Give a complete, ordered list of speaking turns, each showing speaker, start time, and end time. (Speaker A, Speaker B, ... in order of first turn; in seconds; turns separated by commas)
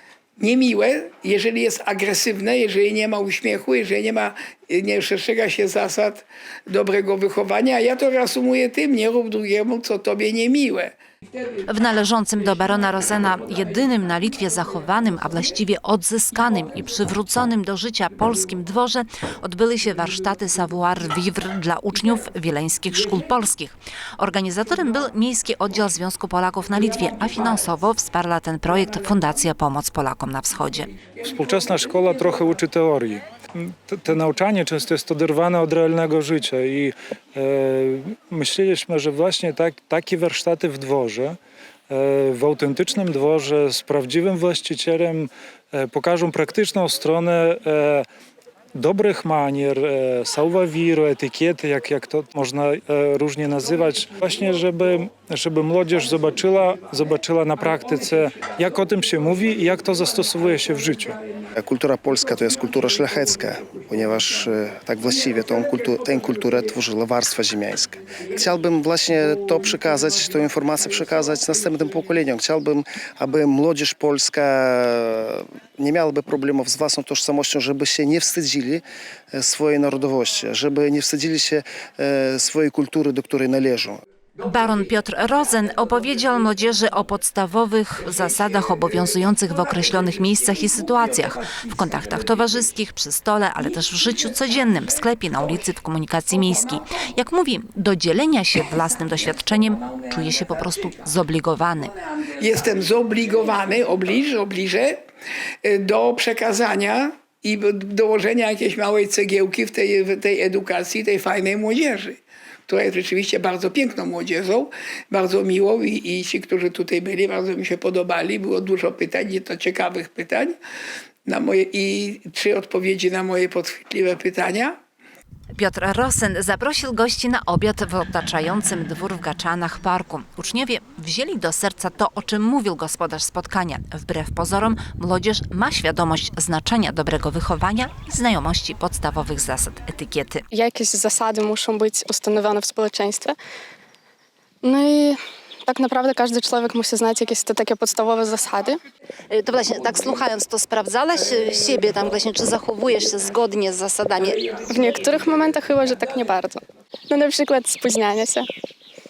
Speaker A: 0.4-10.9, Speaker B: 11.7-30.9, Speaker C: 31.2-41.4, Speaker C: 41.9-48.0, Speaker C: 48.7-61.2, Speaker D: 61.5-84.0, Speaker B: 84.4-101.9, Speaker A: 102.4-105.0, Speaker A: 105.6-120.6, Speaker A: 121.2-124.8, Speaker B: 125.5-140.4, Speaker E: 140.5-143.3, Speaker E: 144.6-148.8, Speaker B: 149.3-154.4, Speaker E: 154.7-158.4